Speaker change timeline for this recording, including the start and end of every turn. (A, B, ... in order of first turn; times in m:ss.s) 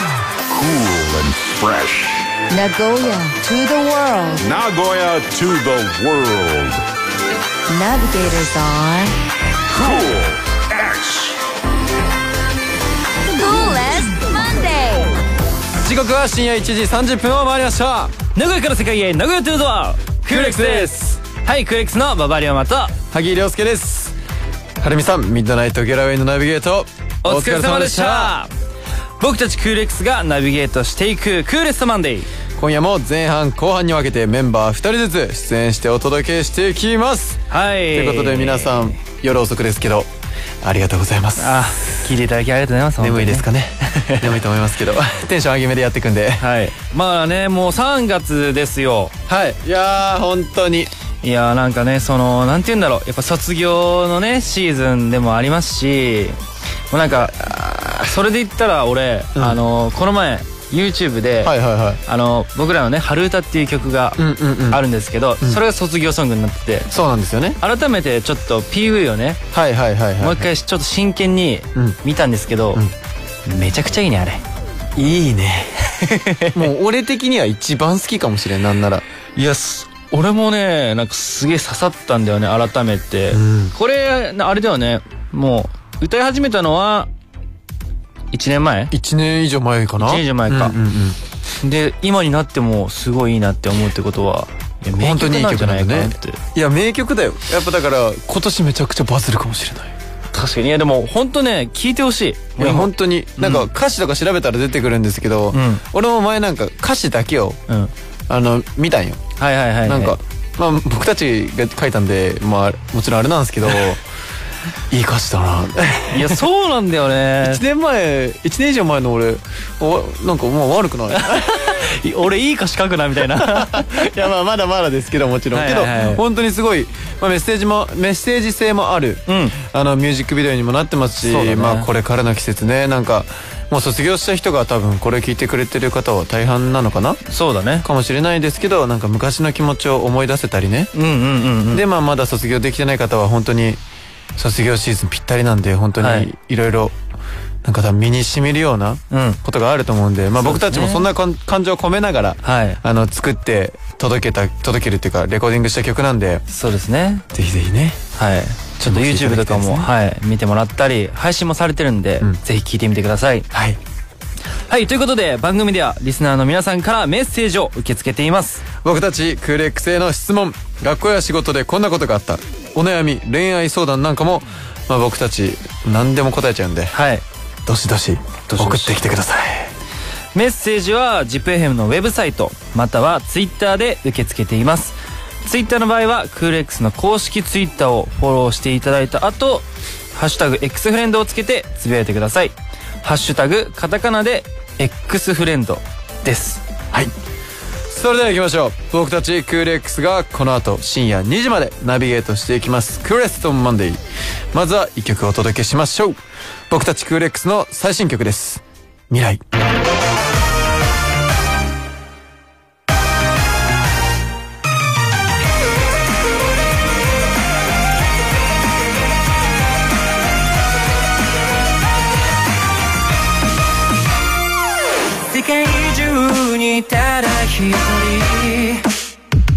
0:00.5-0:02.3 A
0:02.5-0:04.4 B
0:04.4-0:06.8 A
0:07.7-0:09.1 B
0:09.7-0:11.4 A
0:13.3-0:15.1 B
0:15.8-0:18.2 C
0:18.3-0:22.9 D
0:20.2-0:21.2 C
0:23.1-0:24.1 C
0:24.8-0:28.4 C
0:27.2-0:28.5 D
0:29.2-0:32.3 D
0:32.6-0:40.1 C
0:37.5-0:38.9 D
0:40.6-0:42.1 C
0:41.4-0:43.5 D
0:43.0-0:46.5 C
0:44.0-0:44.3 D
0:46.4-0:49.1 D
0:49.3-0:50.9 C
0:51.2-0:56.4 D
0:56.9-0:57.3 D
0:57.1-0:58.1 C
0:58.1-1:01.5 D
0:59.3-0:59.6 C
1:01.4-1:02.0 C
1:02.1-1:04.2 D
1:04.2-1:04.8 C
1:04.7-1:06.9 D
1:06.9-1:07.6 C
1:07.6-1:09.4 D
1:09.5-1:10.5 C
1:10.2-1:12.8 D
1:13.5-1:14.4 D
1:15.0-1:15.8 C
1:16.1-1:16.5 D
1:16.5-1:19.0 C
1:19.4-1:27.1 D
1:23.3-1:23.7 C
1:28.3-1:28.9 D
1:28.9-1:31.2 C
1:30.0-1:30.7 D
1:31.6-1:36.4 D
1:34.9-1:39.9 C
1:40.3-1:43.7 D
1:42.6-1:47.6 C
1:45.5-1:45.8 D
1:48.3-1:49.2 C
1:49.4-1:50.2 D
1:49.8-1:54.0 C
1:54.9-1:56.4 C
1:56.1-1:57.6 D
1:57.4-2:01.8 C
2:01.1-2:04.1 D
2:03.2-2:17.2 C
2:05.5-2:06.2 D
2:09.3-2:09.5 D
2:11.2-2:11.9 D
2:17.3-2:17.9 D
2:17.8-2:20.9 C
2:20.9-2:21.8 D
2:21.7-2:23.8 C
2:24.4-2:27.0 C
2:26.0-2:26.3 D
2:27.6-2:36.4 C
2:29.1-2:29.4 D
2:30.4-2:31.0 D
2:32.4-2:32.8 D
2:36.5-2:37.2 D
2:37.3-2:38.0 C
2:38.2-2:43.4 D
2:38.8-2:39.9 C
2:43.5-2:43.8 C
2:44.7-2:48.6 D
2:48.8-2:57.0 C
2:56.9-2:57.2 D
2:57.6-2:59.7 C
2:58.5-2:59.0 D
3:00.4-3:09.6 D
3:10.1-3:16.6 D
3:17.9-3:29.4 C
3:45.3-3:48.8 D